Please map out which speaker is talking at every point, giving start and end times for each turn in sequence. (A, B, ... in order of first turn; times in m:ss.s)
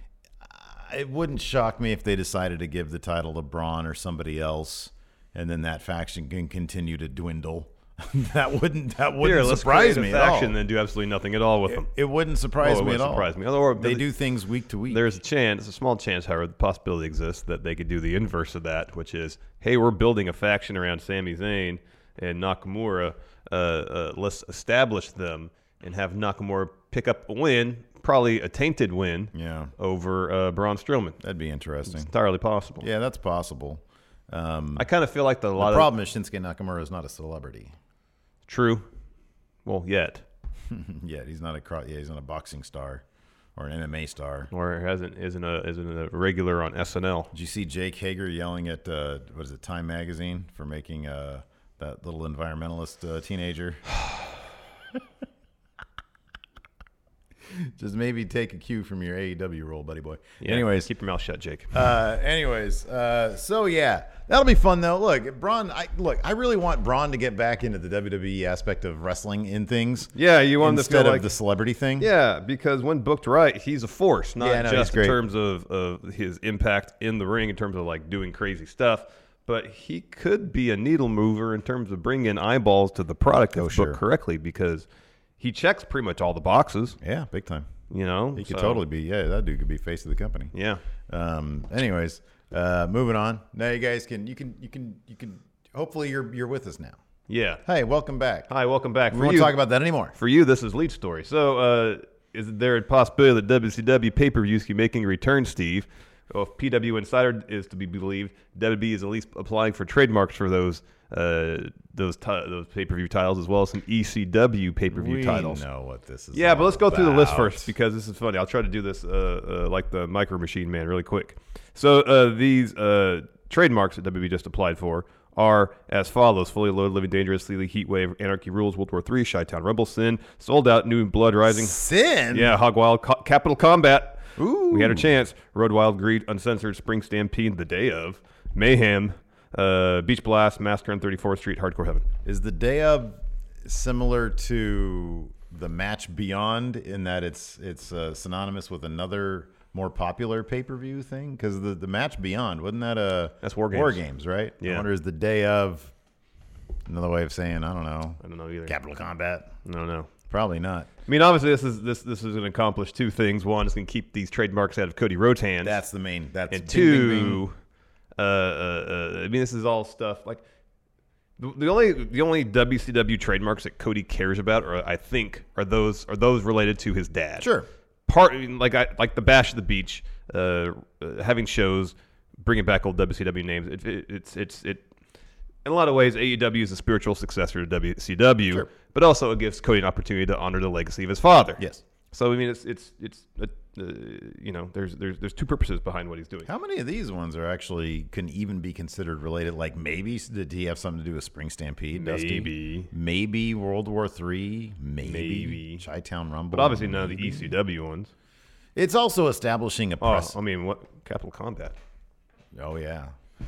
0:00.4-0:10.6 A
0:09.2-0:11.9 B
0:11.7-0:15.1 A
0:12.6-0:14.1 B
0:14.9-0:31.2 B
0:29.3-0:29.7 A
0:31.2-0:32.1 A
0:31.9-0:32.9 B
0:32.8-0:34.9 A
0:34.8-0:35.9 B
0:35.6-0:37.7 A
0:38.5-0:38.9 B
0:39.6-0:40.2 B
0:40.7-0:43.0 A
0:43.6-0:44.5 A
0:44.5-0:47.3 B
0:47.3-0:53.8 A
0:57.6-1:00.9 A
1:00.4-1:01.8 B
1:01.7-1:12.1 A
1:10.2-1:11.3 B
1:12.0-1:24.9 B
1:14.4-1:15.2 A
1:23.6-1:24.0 A
1:25.4-1:27.0 B
1:27.0-1:27.7 A
1:27.9-1:28.8 B
1:28.4-1:30.5 A
1:30.5-1:30.8 B
1:31.1-1:37.0 A
1:37.3-1:37.6 B
1:37.6-1:38.5 A
1:38.5-1:39.6 B
1:39.1-1:40.2 A
1:40.2-1:55.6 B
1:54.9-1:57.7 A
1:56.3-2:11.8 B
2:11.5-2:12.6 A
2:12.3-2:22.1 B
2:14.4-2:15.1 A
2:22.2-2:35.9 A
2:33.4-2:34.0 B
2:34.6-2:34.9 B
2:36.9-2:39.5 A
2:38.2-2:38.8 B
2:39.6-2:40.1 B
2:40.3-2:40.9 A
2:41.1-2:45.8 B
2:45.6-2:47.4 A
2:46.5-2:47.6 B
2:48.2-2:50.4 B
2:51.4-2:57.5 B
2:57.4-2:57.7 A
2:58.1-3:04.9 B
3:05.6-3:11.6 B
3:12.1-3:16.5 B
3:16.5-3:27.5 A
3:21.9-3:22.9 B
3:25.0-3:25.8 B
3:26.5-3:28.1 B
3:28.8-3:30.4 A
3:30.0-3:31.8 B
3:32.5-3:33.1 A